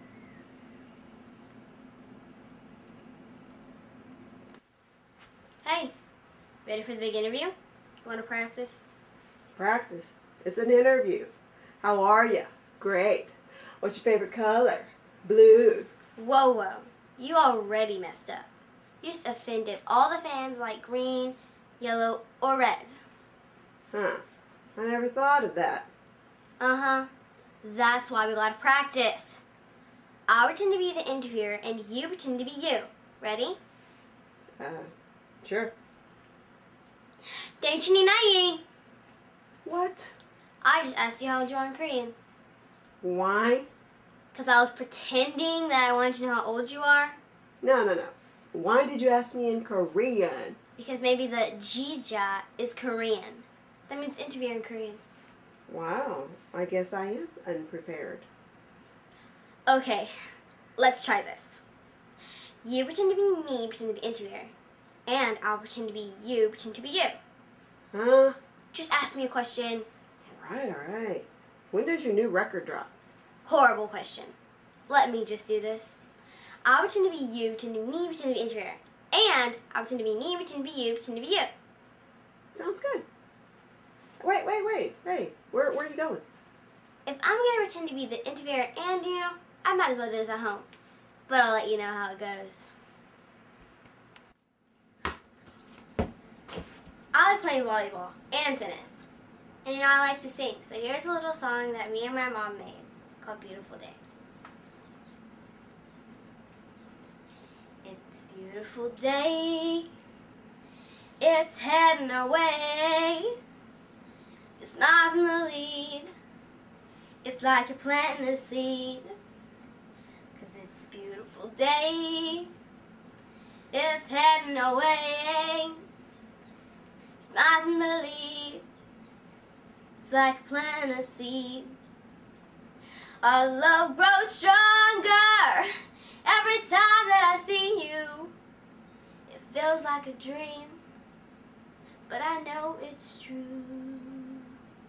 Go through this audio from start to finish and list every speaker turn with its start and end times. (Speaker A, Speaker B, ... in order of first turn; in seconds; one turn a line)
Speaker A: 5.6-5.9
Speaker A: 6.6-8.8
Speaker B: 9.6-11.3
Speaker B: 11.8-15.9
Speaker A: 16.1-18.5
Speaker A: 19.0-23.0
Speaker B: 23.9-24.2
Speaker B: 24.8-25.9
Speaker A: 26.6-27.1
Speaker A: 27.6-29.4
Speaker A: 30.3-33.6
Speaker B: 34.6-34.9
Speaker B: 35.4-35.7
Speaker A: 37.6-38.6
Speaker B: 39.6-40.1
Speaker A: 40.6-42.1
Speaker B: 43.0-43.7
Speaker A: 44.3-47.2
Speaker B: 47.6-50.6
Speaker A: 50.8-55.0
Speaker B: 55.7-58.3
Speaker A: 59.7-60.1
Speaker A: 60.8-61.6
Speaker A: 62.6-64.5
Speaker A: 65.0-67.2
Speaker B: 67.9-68.4
Speaker A: 68.7-69.9
Speaker B: 70.2-72.9
Speaker A: 73.5-74.3
Speaker A: 74.9-76.0
Speaker A: 76.6-81.5
Speaker B: 82.5-83.0
Speaker B: 84.2-86.2
Speaker A: 87.0-90.7
Speaker A: 91.3-92.7
Speaker A: 97.1-99.0
Speaker A: 99.6-104.0
Speaker A: 107.8-109.9
Speaker A: 111.2-113.3
Speaker A: 114.6-116.1
Speaker A: 117.2-119.2
Speaker A: 120.3-122.5
Speaker A: 123.7-125.8
Speaker A: 127.2-128.6
Speaker A: 130.0-131.8
Speaker A: 133.2-135.7
Speaker A: 136.2-138.3
Speaker A: 139.3-140.8
Speaker A: 142.1-144.4